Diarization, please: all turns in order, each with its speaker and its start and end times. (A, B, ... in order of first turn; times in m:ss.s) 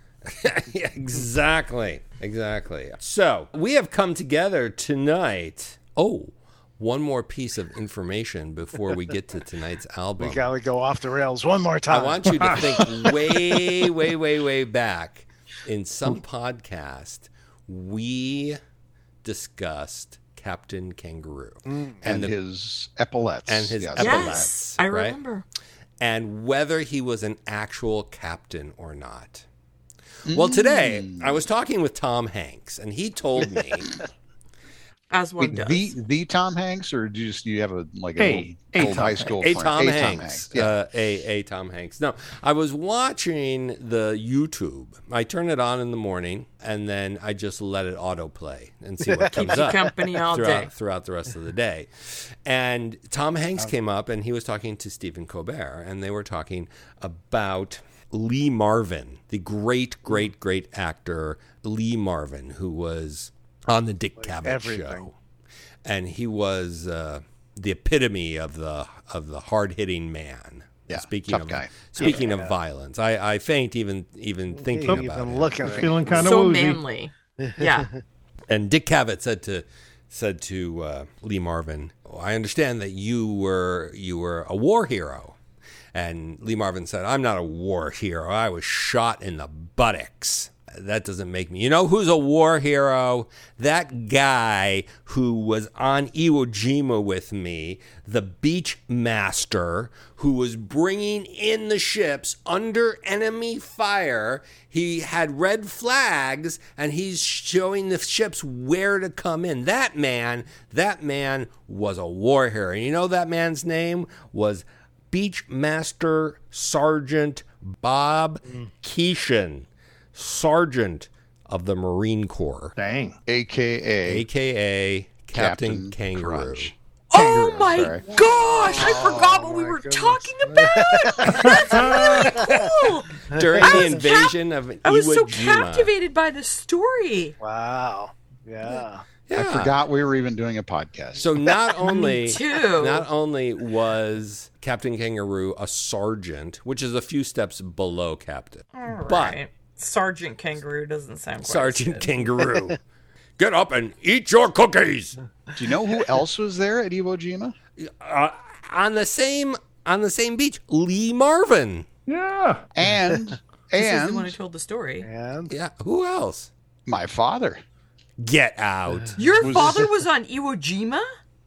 0:00.2-0:10.5 A
0:10.2-0:12.8 B
0:11.9-0:18.6 A
0:19.2-0:22.3 A
0:22.0-0:24.5 C
0:23.5-0:25.2 A
0:24.0-0:25.4 D
0:26.0-0:29.4 A
0:30.2-0:31.4 C
0:30.3-0:33.9 A
0:35.1-0:35.9 D
0:35.4-0:40.7 C
0:38.2-0:39.4 E
0:39.4-1:05.1 A
0:49.1-0:49.7 B
0:49.3-0:50.7 D
1:04.2-1:05.1 B
1:05.8-1:16.0 A
1:10.9-1:11.9 C
1:12.0-1:12.5 B
1:14.5-1:16.3 B
1:15.6-1:16.8 E
1:16.1-1:17.9 D
1:17.4-1:17.7 B
1:18.5-1:25.4 A
1:25.9-2:02.8 A
2:02.8-2:03.2 E
2:03.3-2:04.2 C
2:04.0-2:06.7 A
2:05.3-2:08.1 C
2:07.1-2:17.3 D
2:08.6-2:11.4 B
2:11.4-2:12.3 E
2:11.4-2:12.7 A
2:13.2-2:15.9 A
2:13.6-2:13.8 B
2:17.4-2:19.0 B
2:19.3-2:19.7 A
2:19.4-2:21.3 C
2:21.2-2:29.4 A
2:21.8-2:23.1 D
2:28.7-2:32.4 D
2:31.4-2:32.8 A
2:33.4-2:35.2 A
2:35.6-2:37.5 C
2:37.8-2:41.8 A
2:42.1-2:42.6 E
2:42.7-2:44.4 C
2:43.8-2:45.1 D
2:45.0-2:45.5 B
2:45.5-2:46.5 A
2:46.8-2:47.6 C
2:48.2-2:49.6 A
2:49.2-2:51.1 D
2:49.4-2:49.8 C